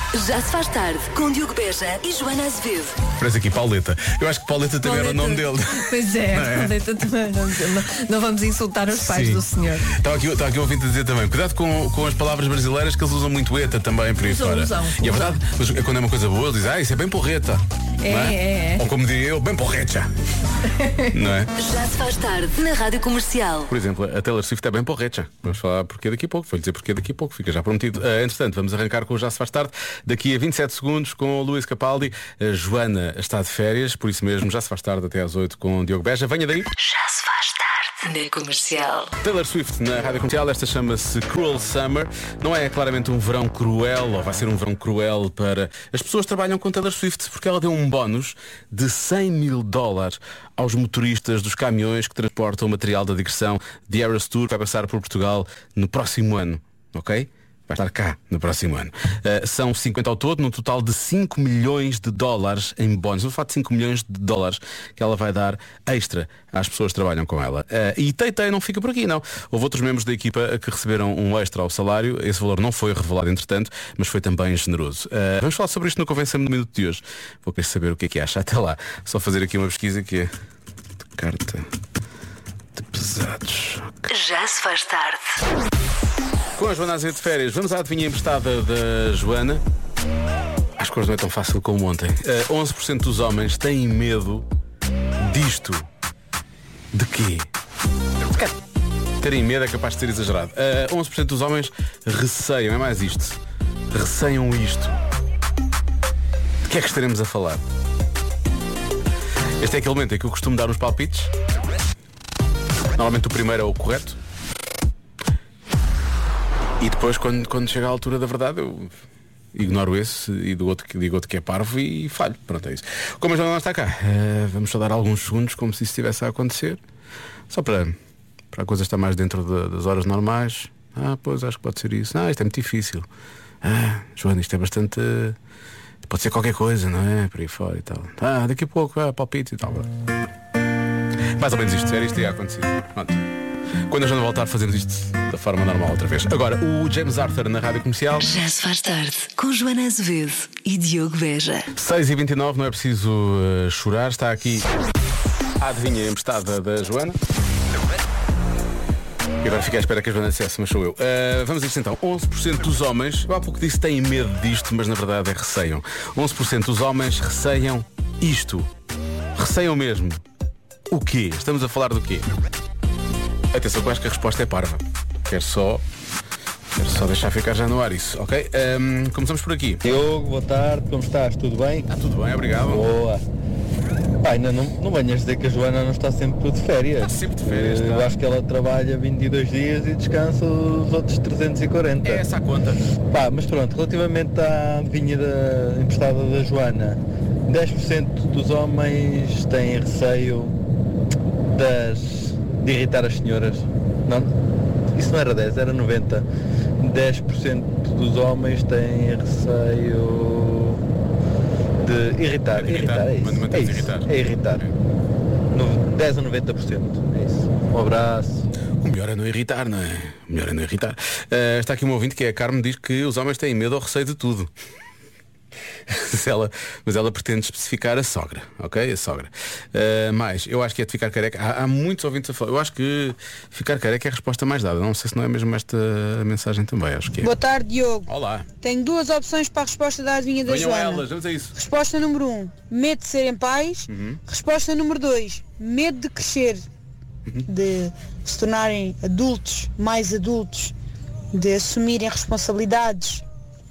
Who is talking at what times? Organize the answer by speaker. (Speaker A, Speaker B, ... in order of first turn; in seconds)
Speaker A: 0.1-3.0, 21.6-23.7, 36.8-39.1, 84.1-85.4, 148.2-151.7
Speaker B: 3.2-6.8, 9.1-9.4, 9.9-20.1, 21.2-21.5, 23.7-36.7, 39.2-80.3, 81.2-81.7, 82.7-84.1, 86.5-89.6, 90.8-94.5, 95.2-95.8, 96.9-97.5, 98.2-98.5, 99.2-103.4, 103.9-105.0, 106.6-107.6, 109.6-111.3, 112.9-114.2, 116.8-118.9, 119.5-126.8, 127.5-128.0, 128.5-133.1, 133.6-135.3, 136.1-139.9, 141.4-143.2, 143.9-148.2, 151.8-154.6, 155.6-157.2, 159.4-168.7, 169.3-170.2, 170.9-172.3, 173.5-175.8, 176.7-179.8, 181.9-182.8, 187.1-188.2, 192.0-192.8, 212.6-214.6, 218.8-224.5, 225.9-237.3, 238.1-238.5, 240.4-241.5, 243.9-244.2
Speaker C: 4.8-9.9, 14.2-15.4, 18.0-18.9, 20.8-21.2
Speaker D: 179.8-181.9, 182.7-183.2, 184.2-192.2, 193.1-200.5, 201.5-204.3, 204.9-206.2, 206.8-210.8, 211.8-214.7, 215.5-218.5
Speaker E: 237.1-246.6, 247.5-250.7, 251.3-253.2